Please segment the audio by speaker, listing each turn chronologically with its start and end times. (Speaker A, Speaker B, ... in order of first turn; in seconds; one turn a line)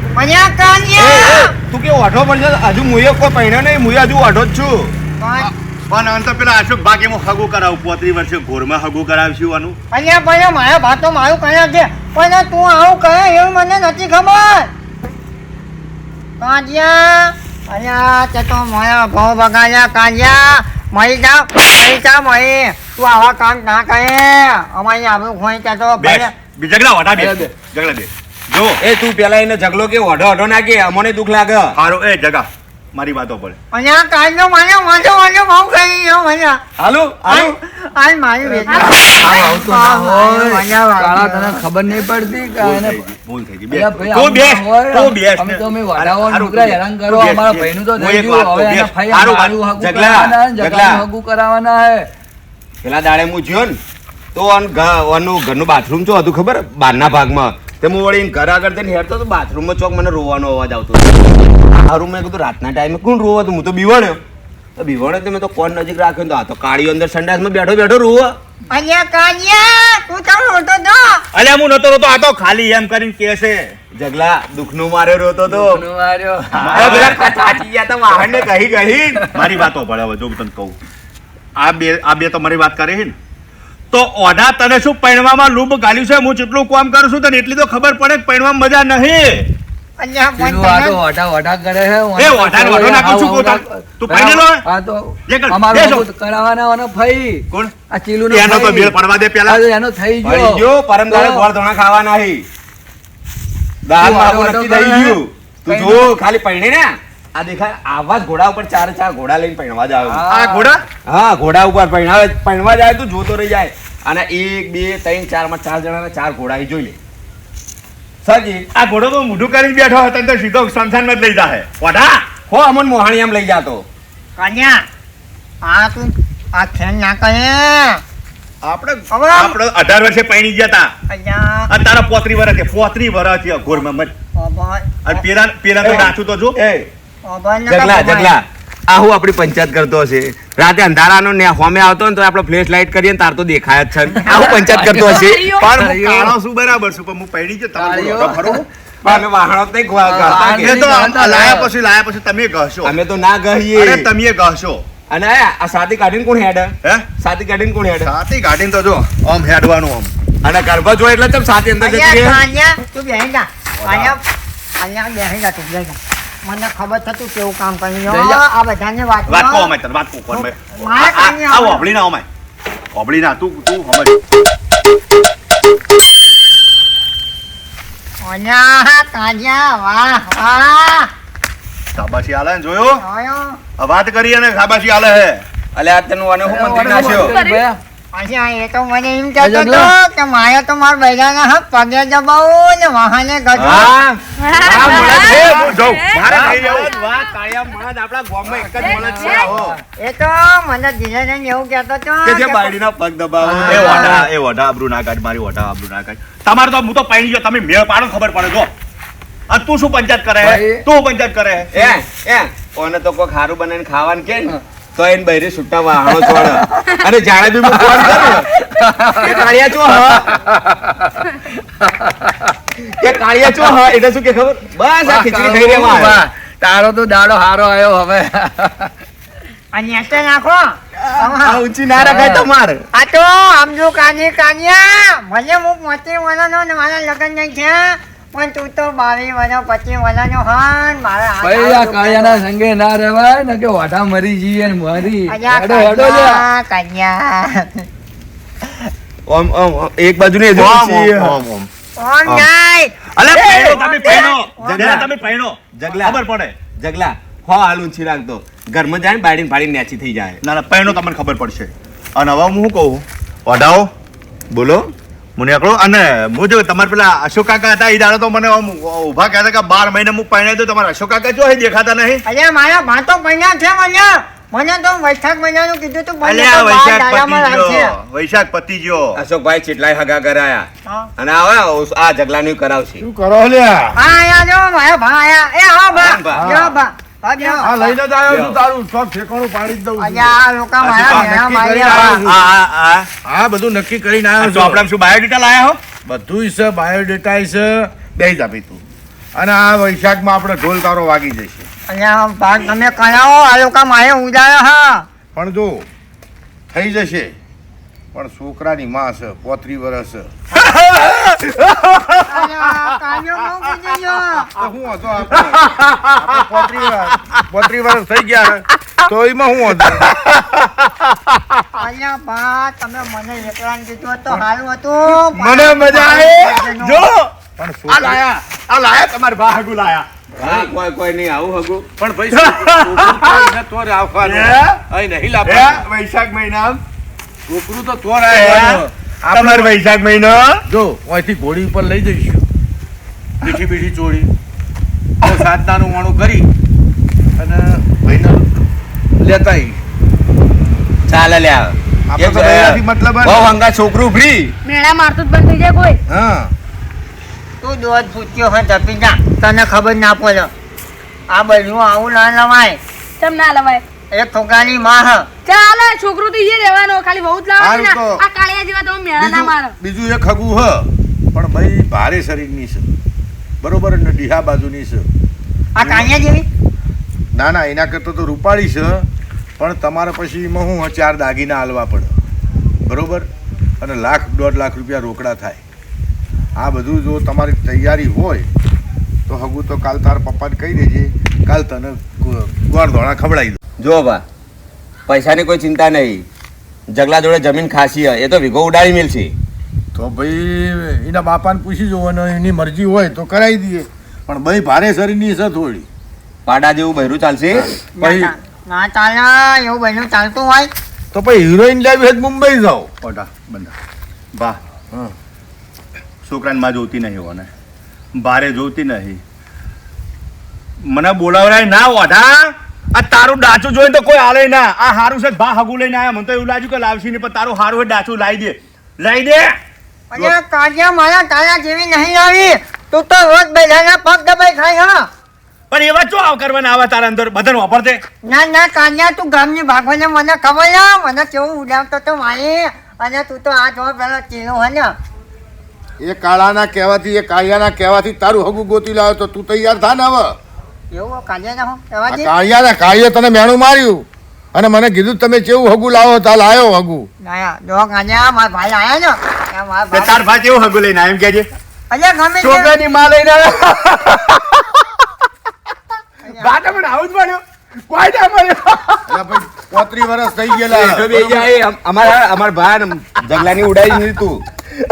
Speaker A: 0.2-1.5
Speaker B: 1.0-4.9
Speaker A: 5.2-5.5
Speaker C: 5.4-9.8
Speaker A: 9.9-14.7
Speaker A: 16.4-26.3
Speaker C: 26.0-28.8
Speaker D: 27.1-27.5
Speaker B: 28.8-31.8
Speaker C: 31.8-33.6
Speaker A: 33.7-36.6
Speaker B: 36.8-37.5
Speaker A: 37.3-41.6
Speaker D: 38.5-43.1
Speaker C: 42.6-49.5
Speaker D: 43.7-52.1
Speaker B: 49.2-51.0
Speaker B: 52.8-53.8
Speaker B: 54.4-64.2
Speaker B: 64.8-68.4
Speaker A: 68.7-71.2
Speaker C: 71.3-73.7
Speaker B: 73.9-75.8
Speaker D: 75.5-77.6
Speaker C: 76.6-77.2
Speaker B: 76.6-79.3
Speaker D: 79.2-79.6
Speaker C: 79.3-80.8
Speaker C: 81.6-83.2
Speaker C: 83.9-89.5
Speaker A: 90.0-91.0
Speaker D: 90.4-101.5
Speaker C: 92.2-94.6
Speaker C: 95.3-96.1
Speaker C: 98.3-99.6
Speaker B: 100.2-102.5
Speaker B: 103.9-110.3
Speaker D: 104.0-106.2
Speaker D: 110.0-110.7
Speaker C: 110.3-110.8
Speaker B: 111.0-117.0
Speaker B: 118.2-118.7
Speaker C: 118.7-122.3
Speaker B: 122.5-123.8
Speaker A: 124.4-124.8
Speaker A: 125.7-128.0
Speaker C: 128.6-130.9
Speaker A: 129.1-129.6
Speaker A: 131.1-131.7
Speaker C: 131.7-134.1
Speaker A: 134.3-135.2
Speaker C: 135.1-136.6
Speaker B: 135.8-136.9
Speaker A: 137.3-138.4
Speaker B: 137.7-145.5
Speaker D: 144.2-146.3
Speaker C: 145.5-148.6
Speaker D: 147.8-149.1
Speaker B: 149.0-150.4
Speaker D: 150.0-151.7
Speaker C: 150.3-152.9
Speaker B: 152.8-154.1
Speaker C: 153.7-154.8
Speaker B: 155.1-158.1
Speaker C: 158.0-160.1
Speaker B: 160.4-162.4
Speaker A: 161.8-164.2
Speaker A: 164.8-169.7
Speaker D: 168.1-168.4
Speaker C: 169.3-172.3
Speaker A: 170.3-171.8
Speaker C: 172.9-174.2
Speaker A: 178.2-181.1
Speaker C: 181.9-183.0
Speaker A: 183.0-183.6
Speaker C: 183.8-185.4
Speaker B: 185.8-187.3
Speaker D: 186.4-187.8
Speaker E: 187.1-187.6
Speaker A: 188.1-193.9
Speaker D: 189.4-189.9
Speaker B: 193.6-199.8
Speaker E: 194.4-197.2
Speaker C: 194.8-196.9
Speaker D: 198.5-199.8
Speaker E: 198.8-199.5
Speaker A: 200.0-202.7
Speaker B: 202.2-204.2
Speaker D: 203.5-204.2
Speaker A: 203.5-204.2
Speaker C: 203.7-208.7
Speaker C: 209.5-211.9
Speaker D: 210.4-210.8
Speaker B: 211.7-220.3
Speaker D: 216.1-216.9
Speaker D: 217.7-219.5
Speaker D: 220.1-222.6
Speaker B: 223.0-226.2
Speaker D: 225.1-228.9
Speaker A: 229.7-231.6
Speaker B: 231.0-232.8
Speaker D: 231.9-232.5
Speaker A: 232.9-242.4
Speaker D: 241.4-246.5
Speaker A: 245.3-247.9
Speaker B: 249.3-251.3
Speaker C: 250.5-251.7
Speaker A: 252.0-252.9
Speaker C: 253.2-256.6
Speaker B: 253.3-255.1
Speaker A: 253.7-255.1
Speaker B: 255.7-256.2
Speaker B: 256.7-260.4
Speaker C: 260.4-263.9
Speaker B: 264.5-264.9
Speaker C: 265.4-272.2
Speaker A: 272.3-277.9
Speaker C: 276.2-279.2
Speaker B: 279.1-283.1
Speaker A: 280.9-281.1
Speaker F: 283.0-284.0
Speaker A: 284.0-287.9
Speaker B: 285.9-286.5
Speaker F: 286.3-286.7
Speaker F: 287.6-290.4
Speaker B: 288.3-288.6
Speaker A: 290.0-292.2
Speaker C: 290.8-293.1
Speaker F: 291.0-292.5
Speaker F: 293.2-294.9
Speaker C: 294.4-295.8
Speaker F: 296.1-298.8
Speaker F: 299.4-301.7
Speaker A: 301.9-305.1
Speaker F: 305.4-305.9
Speaker F: 306.7-307.4
Speaker F: 308.1-310.4
Speaker C: 310.8-312.1
Speaker A: 312.2-314.5
Speaker F: 314.5-320.1
Speaker C: 315.5-317.4
Speaker C: 319.8-320.9
Speaker A: 321.8-327.1
Speaker C: 325.1-327.3
Speaker F: 327.6-328.2
Speaker C: 327.9-330.1
Speaker B: 330.4-331.9
Speaker F: 332.0-335.9
Speaker C: 332.3-333.5
Speaker C: 334.2-334.8
Speaker C: 335.4-336.8
Speaker F: 337.5-339.7
Speaker C: 338.3-340.6
Speaker F: 340.7-342.4
Speaker F: 343.4-344.3
Speaker F: 345.2-346.5
Speaker F: 347.4-348.5
Speaker F: 349.2-349.8
Speaker B: 351.1-354.5
Speaker F: 352.1-353.5
Speaker E: 354.6-356.0
Speaker B: 356.1-356.5
Speaker A: 357.6-360.5
Speaker A: 361.3-362.8
Speaker E: 363.2-363.8
Speaker A: 364.1-365.3
Speaker E: 365.5-369.8
Speaker F: 367.6-368.2
Speaker F: 369.2-372.9
Speaker F: 373.6-375.1
Speaker A: 375.8-376.5
Speaker F: 375.8-376.1
Speaker F: 377.3-379.1
Speaker F: 379.6-382.1
Speaker F: 382.9-383.3
Speaker F: 383.8-385.6
Speaker F: 386.6-388.5
Speaker F: 389.3-393.6
Speaker B: 393.8-394.2
Speaker B: 395.1-396.2
Speaker B: 396.9-399.3
Speaker F: 399.9-405.9
Speaker B: 406.5-407.7
Speaker F: 407.6-408.3
Speaker A: 408.0-410.7
Speaker F: 411.1-412.9
Speaker C: 413.0-413.7
Speaker C: 414.3-414.6
Speaker C: 416.2-417.5
Speaker C: 418.2-419.2
Speaker C: 420.9-429.6
Speaker A: 430.1-435.1
Speaker C: 435.7-438.0
Speaker A: 438.2-444.9
Speaker F: 446.0-450.4
Speaker A: 450.9-452.3
Speaker F: 452.1-457.1
Speaker A: 457.2-460.2
Speaker C: 459.9-461.5
Speaker A: 461.9-462.8
Speaker C: 462.4-464.6
Speaker A: 466.2-466.7
Speaker C: 466.4-469.0
Speaker F: 469.1-471.5
Speaker B: 470.7-474.4